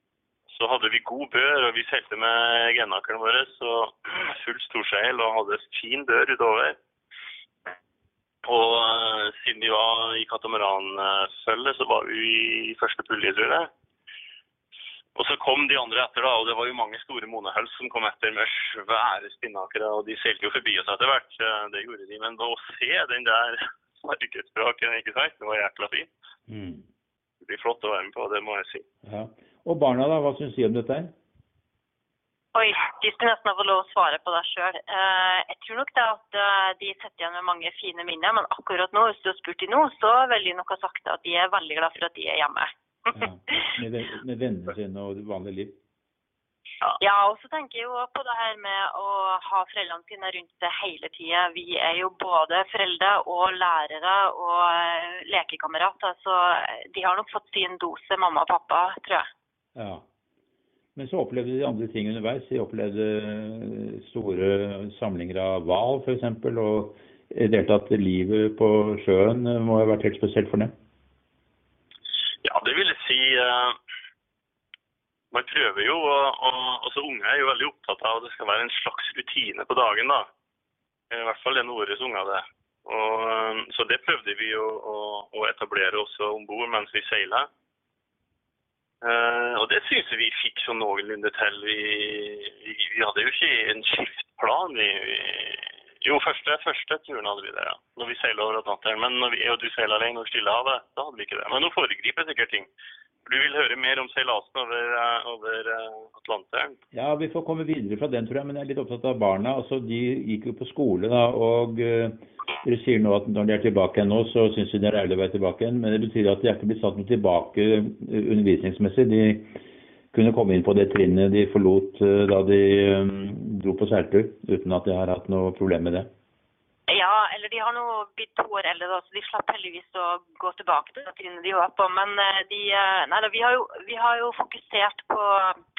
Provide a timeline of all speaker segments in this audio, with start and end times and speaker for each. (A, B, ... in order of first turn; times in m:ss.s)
0:00.5-0:06.8 A
0:08.4-0:13.7 A
0:15.1-0:26.1 A
0:26.5-0:26.8 B
0:27.4-0:28.8 A
0:29.0-0:31.1 B
0:32.5-0:42.7 C
0:43.1-0:45.7 B
0:47.0-0:59.3 C
0:59.8-1:00.0 B
1:01.0-1:10.7 B
1:12.4-1:13.8 A
1:15.3-1:20.3 A
1:21.1-1:27.5 A
1:29.0-1:42.7 A
1:43.2-1:46.8 A
1:46.9-1:59.5 B
2:00.1-2:06.1 B
2:06.9-2:15.6 C